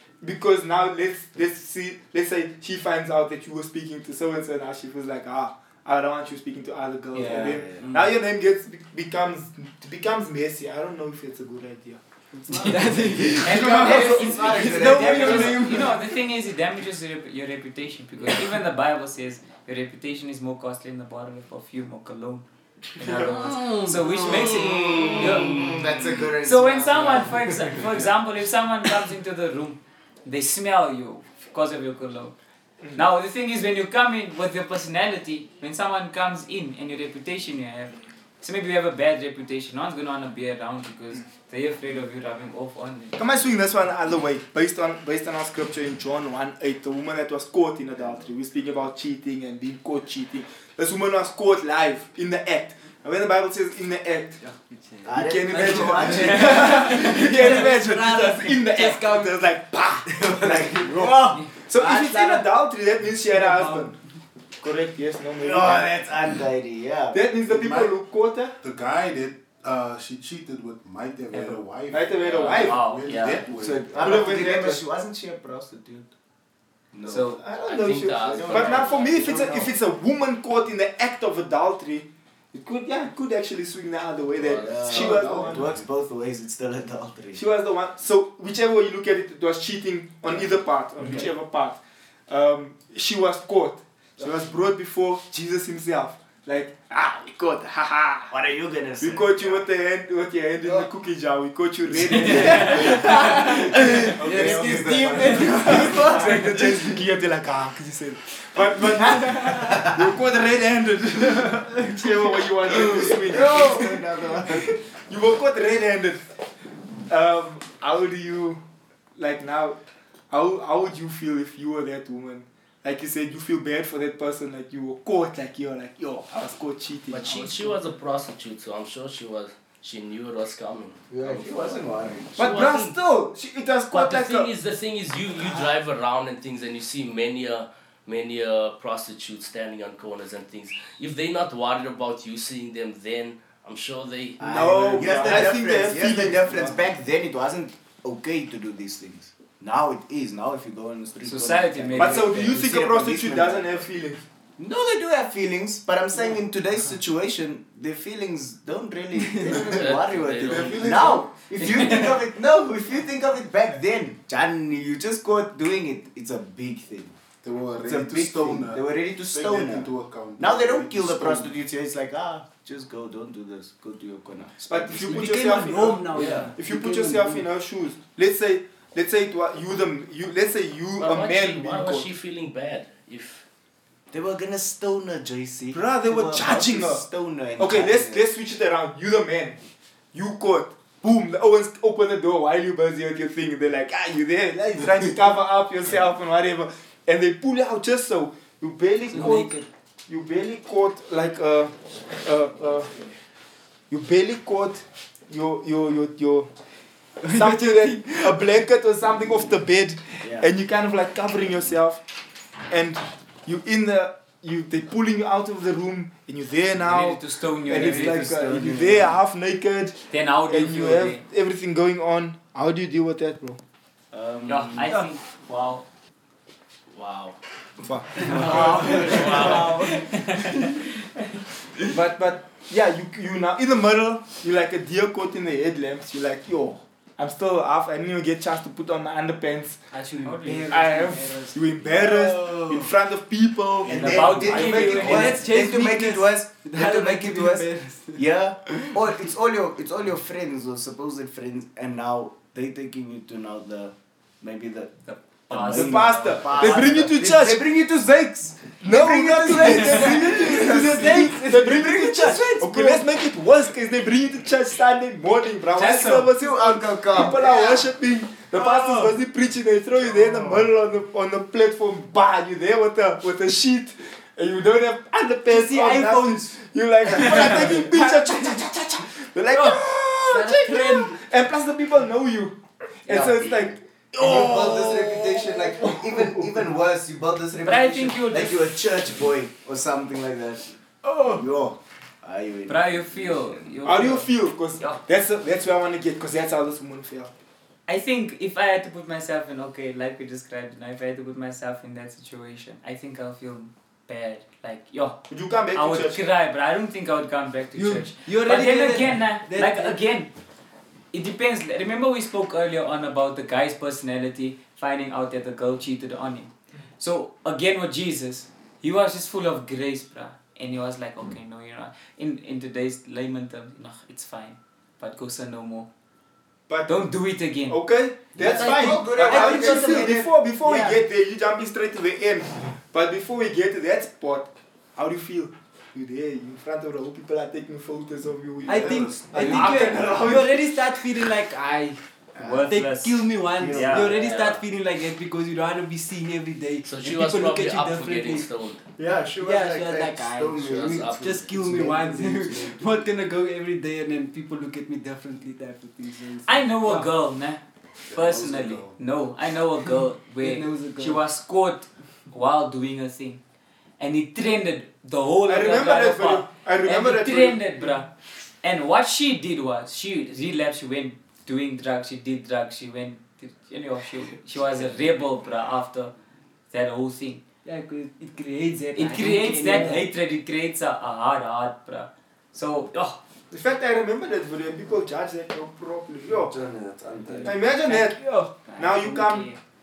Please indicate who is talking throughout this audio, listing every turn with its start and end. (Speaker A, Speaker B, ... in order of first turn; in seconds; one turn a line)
Speaker A: 0.2-12.0
Speaker B: 7.1-7.7
Speaker C: 7.1-8.0
Speaker C: 12.5-15.8
Speaker D: 12.5-16.0
Speaker B: 13.3-25.8
Speaker C: 23.4-28.0
Speaker B: 26.4-32.3
Speaker B: 32.9-43.2
Speaker A: 43.2-54.4
Speaker D: 54.4-59.4
Speaker C: 55.0-57.0
Speaker A: 55.1-64.0
Speaker C: 60.1-62.2
Speaker D: 60.6-61.1
Speaker D: 61.9-62.4
Speaker D: 63.3-64.0
Speaker A: 64.6-66.0
Speaker C: 65.4-67.4
Speaker A: 67.1-68.5
Speaker E: 67.5-67.9
Speaker E: 68.6-74.3
Speaker B: 71.3-71.6
Speaker A: 71.9-72.8
Speaker B: 72.3-73.4
Speaker C: 73.6-76.1
Speaker A: 74.0-74.8
Speaker C: 76.9-79.7
Speaker B: 77.0-77.4
Speaker A: 77.4-85.7
Speaker F: 77.6-79.3
Speaker F: 84.3-84.7
Speaker C: 84.6-87.4
Speaker E: 84.8-85.9
Speaker A: 87.3-98.3
Speaker C: 91.0-91.3
Speaker C: 98.3-99.6
Speaker A: 99.0-116.3
Speaker C: 100.6-100.9
Speaker C: 102.1-106.8
Speaker D: 102.4-106.6
Speaker E: 104.1-105.8
Speaker C: 109.0-110.2
Speaker C: 112.7-114.8
Speaker A: 117.1-118.6
Speaker A: 119.2-119.8
Speaker A: 120.3-127.8
Speaker F: 127.1-132.9
Speaker C: 131.1-132.4
Speaker A: 132.4-134.5
Speaker F: 133.9-144.4
Speaker C: 144.4-153.8
Speaker A: 144.4-146.8
Speaker B: 151.2-152.4
Speaker A: 151.9-154.2
Speaker C: 154.6-167.2
Speaker D: 159.2-159.5
Speaker F: 159.5-161.1
Speaker E: 159.5-159.9
Speaker E: 160.4-161.3
Speaker E: 167.4-171.5
Speaker C: 167.8-175.3
Speaker A: 174.6-182.1
Speaker D: 175.0-177.5
Speaker F: 176.1-176.5
Speaker F: 181.0-183.4
Speaker C: 184.1-188.2
Speaker A: 185.7-189.6
Speaker A: 190.1-199.5
Speaker D: 199.1-199.7
Speaker A: 200.1-202.9
Speaker A: 203.9-206.5
Speaker D: 207.2-208.4
Speaker A: 207.3-212.0
Speaker C: 210.2-210.5
Speaker A: 212.7-223.6
Speaker B: 216.8-218.5
Speaker C: 217.7-219.2
Speaker B: 220.1-221.2
Speaker C: 224.1-224.9
Speaker B: 224.4-225.8
Speaker F: 226.9-227.4
Speaker A: 227.8-229.7
Speaker D: 228.2-230.7
Speaker C: 228.2-229.6
Speaker F: 228.9-229.8
Speaker B: 229.0-230.7
Speaker A: 231.8-239.8
Speaker D: 239.9-242.3
Speaker B: 240.2-240.7
Speaker A: 240.7-245.2
Speaker C: 242.4-242.7
Speaker C: 243.8-261.4
Speaker B: 243.9-245.4
Speaker D: 244.5-248.9
Speaker B: 255.1-256.8
Speaker A: 255.7-257.6
Speaker A: 258.8-285.2
Speaker D: 259.6-263.0
Speaker B: 265.8-266.2
Speaker C: 266.2-267.9
Speaker D: 268.6-269.1
Speaker C: 270.1-270.4
Speaker D: 275.5-278.6
Speaker D: 279.5-281.2
Speaker C: 283.1-293.9
Speaker A: 285.8-286.4
Speaker B: 287.6-288.7
Speaker B: 292.7-295.0
Speaker A: 293.8-297.3
Speaker B: 297.9-310.3
Speaker A: 305.3-306.2
Speaker D: 307.7-310.0
Speaker B: 311.1-325.9
Speaker A: 326.7-327.0
Speaker B: 326.9-327.8
Speaker A: 327.7-340.7
Speaker C: 328.3-330.3
Speaker D: 328.4-331.0
Speaker E: 338.6-339.4
Speaker D: 338.7-342.0
Speaker B: 339.4-339.7
Speaker C: 342.3-342.8
Speaker B: 342.4-344.3
Speaker D: 342.6-348.5
Speaker C: 343.5-344.5
Speaker F: 346.8-348.8
Speaker C: 349.0-353.0
Speaker D: 349.4-357.1
Speaker F: 350.6-351.5
Speaker B: 356.4-363.4
Speaker E: 358.1-359.0
Speaker D: 360.4-361.2
Speaker B: 364.0-368.1
Speaker A: 365.5-368.0
Speaker B: 368.6-376.1
Speaker B: 376.7-377.4
Speaker D: 377.6-380.1
Speaker B: 378.9-383.2
Speaker A: 383.5-386.6
Speaker C: 386.6-387.5
Speaker D: 387.3-388.6
Speaker A: 387.4-389.5
Speaker B: 387.8-389.6